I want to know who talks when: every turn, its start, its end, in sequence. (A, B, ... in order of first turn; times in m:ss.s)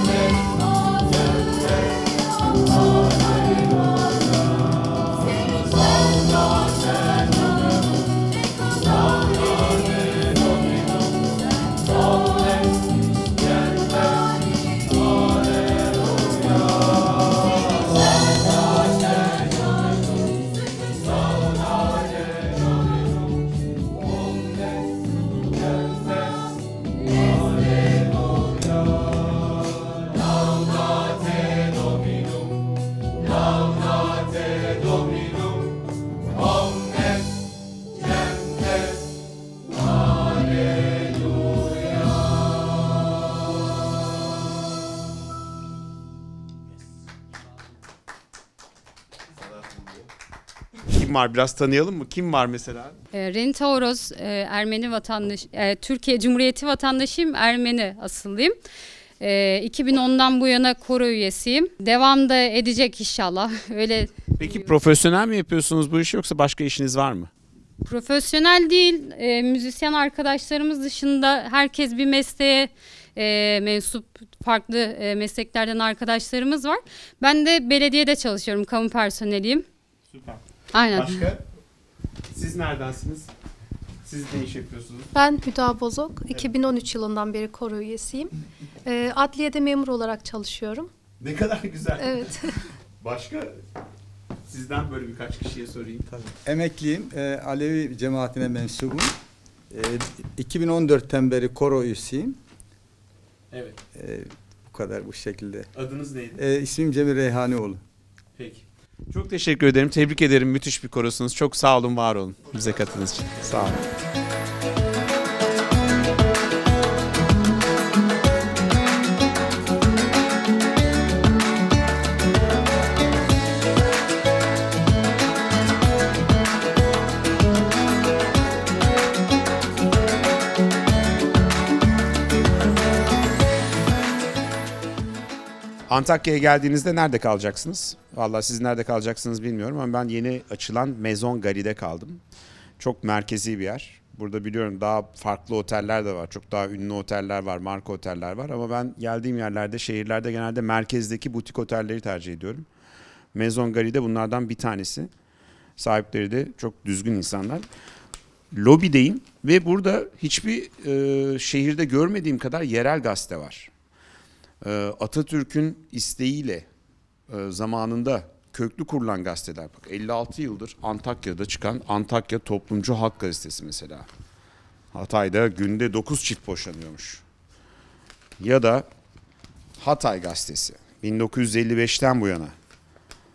0:50.9-0:53.0 A
0:53.1-0:58.6 B
0:59.2-1:04.5 B
1:04.4-1:07.3 A
1:07.8-1:19.6 B
1:20.1-1:20.4 A
1:20.7-1:21.3 B
1:20.9-1:21.4 A
1:22.3-1:23.3 A
1:24.0-1:25.1 A
1:25.1-1:28.3 C
1:28.9-1:30.9 C
1:31.2-1:32.4 A
1:32.0-1:32.6 C
1:33.0-1:33.5 A
1:34.5-1:36.1 A
1:36.1-1:39.1 D
1:39.7-1:42.4 D
1:44.0-1:45.7 D
1:45.7-1:46.4 A
1:46.4-1:47.8 D
1:48.4-1:53.9 A
2:15.9-2:22.2 A
2:22.8-2:32.7 A
2:33.3-2:35.1 A
2:35.8-2:37.6 A
2:38.5-2:43.7 A
2:44.6-2:46.7 A
2:47.3-2:54.1 A
2:54.9-2:57.2 A
2:58.4-2:58.9 A
2:59.8-3:02.5 A